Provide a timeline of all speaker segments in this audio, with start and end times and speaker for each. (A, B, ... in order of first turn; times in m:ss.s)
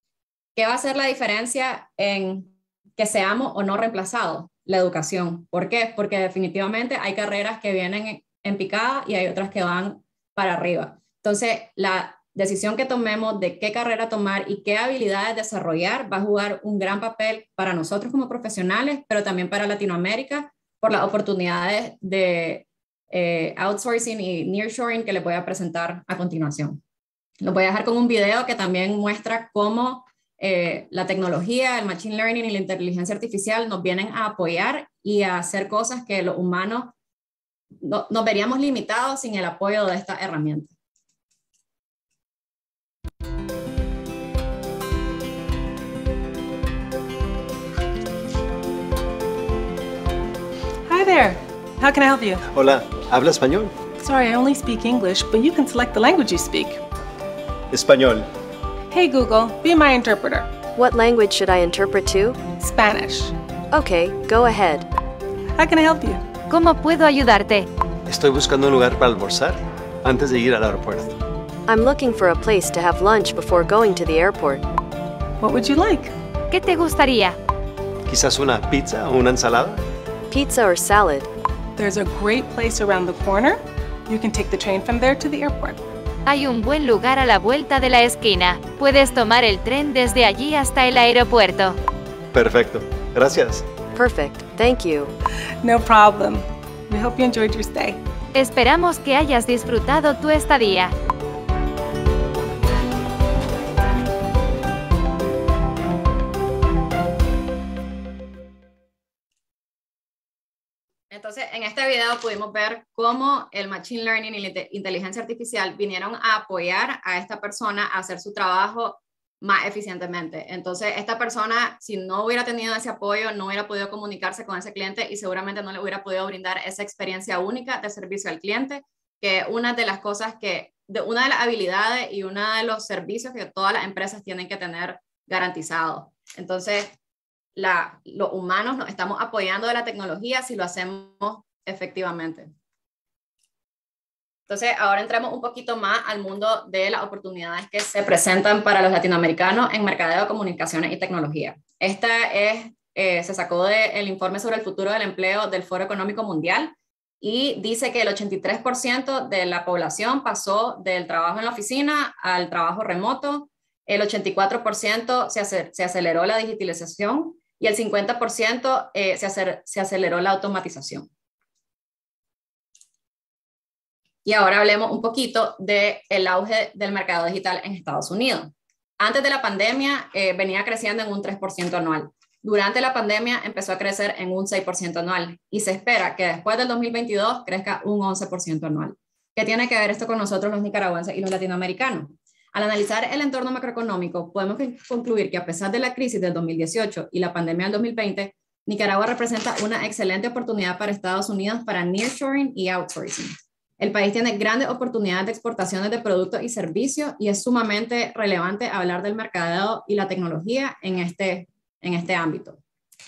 0:00.6-0:26.8 A
0:27.4-0:36.9 A
0:37.8-0:40.7 A
0:50.9-0:52.5 B
0:52.5-0:53.7 C
0:54.0-0:56.8 B
0:57.7-0:58.3 C
0:58.9-1:00.5 B
1:00.8-1:02.4 D
1:02.6-1:03.4 B
1:03.7-1:04.9 D
1:05.6-1:06.3 B
1:06.5-1:07.7 E
1:08.1-1:11.2 C
1:11.7-1:14.6 D
1:15.4-1:16.1 B
1:16.5-1:17.4 E
1:18.1-1:19.8 C
1:20.3-1:21.3 D
1:21.8-1:25.8 B
1:26.2-1:31.8 E
1:32.3-1:33.6 C
1:34.0-1:35.1 D
1:35.6-1:38.0 B
1:38.3-1:40.9 E
1:51.1-2:16.9 A
2:17.6-2:22.5 A
2:24.5-2:51.1 A
2:54.2-3:32.6 A